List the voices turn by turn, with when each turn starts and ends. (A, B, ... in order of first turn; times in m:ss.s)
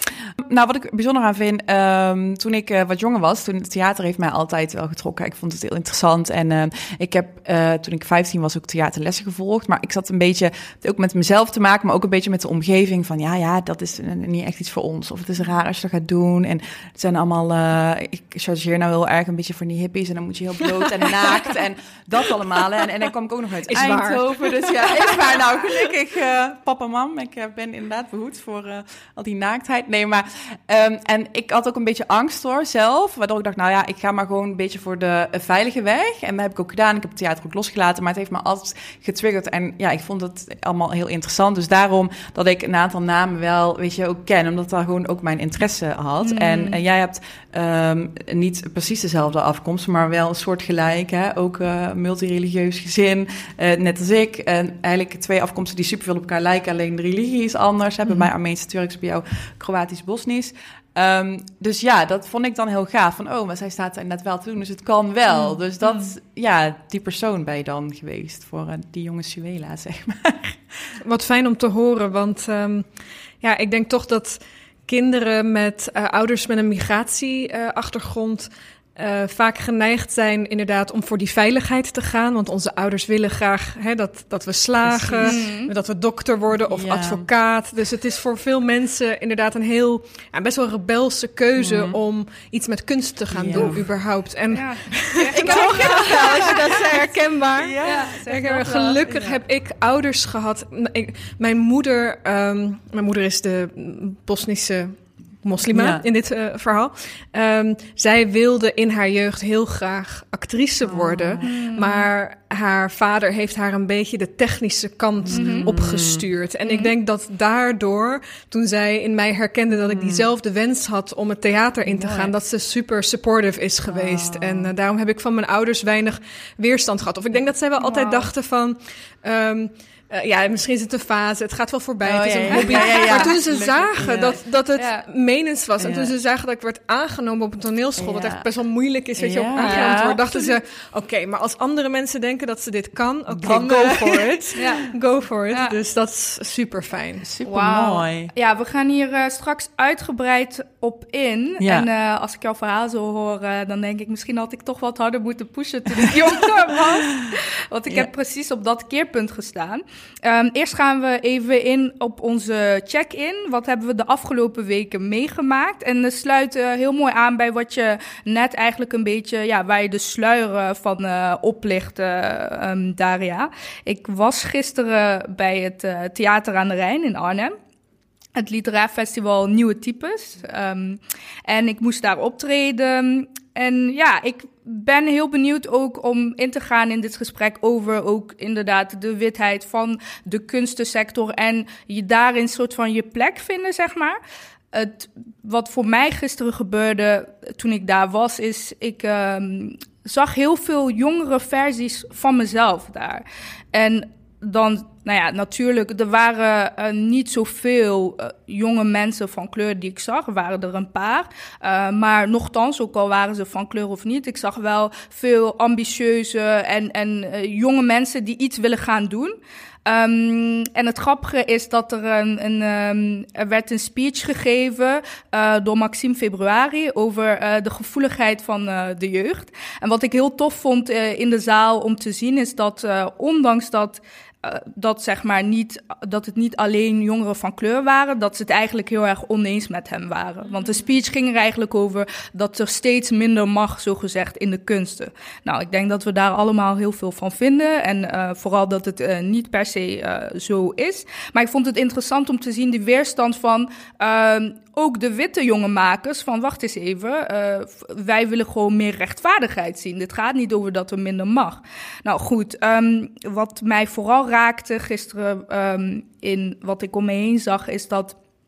0:00.2-1:10.9 A
0:23.6-0:25.6 B
0:46.2-0:46.8 C
1:11.0-1:12.9 B
1:13.4-2:27.3 B
1:24.8-1:25.4 A
1:25.2-1:25.7 C
1:26.7-1:27.3 A
1:31.6-1:32.0 A
1:33.3-1:33.8 A
1:34.5-1:36.9 C
1:35.3-1:38.2 A
1:37.8-1:39.0 C
1:39.1-1:39.4 A
1:45.7-1:46.0 A
1:50.8-1:51.5 A
1:51.4-1:52.1 C
1:55.2-1:56.2 A
1:55.3-1:55.7 C
1:56.6-1:56.9 C
1:59.9-2:00.3 A
2:01.9-2:02.3 A
2:03.9-2:04.7 A
2:07.8-2:08.3 C
2:12.0-2:14.4 A
2:12.5-2:13.3 C
2:14.8-2:15.1 C
2:15.8-2:16.1 A
2:18.0-2:18.5 A
2:19.2-2:20.2 A
2:19.6-2:20.5 C
2:23.4-2:24.4 A
2:24.6-2:24.9 C
2:27.2-2:28.3 A
2:27.4-2:57.6 C
2:31.6-2:31.9 A
2:58.4-3:14.2 C
3:14.7-4:28.2 C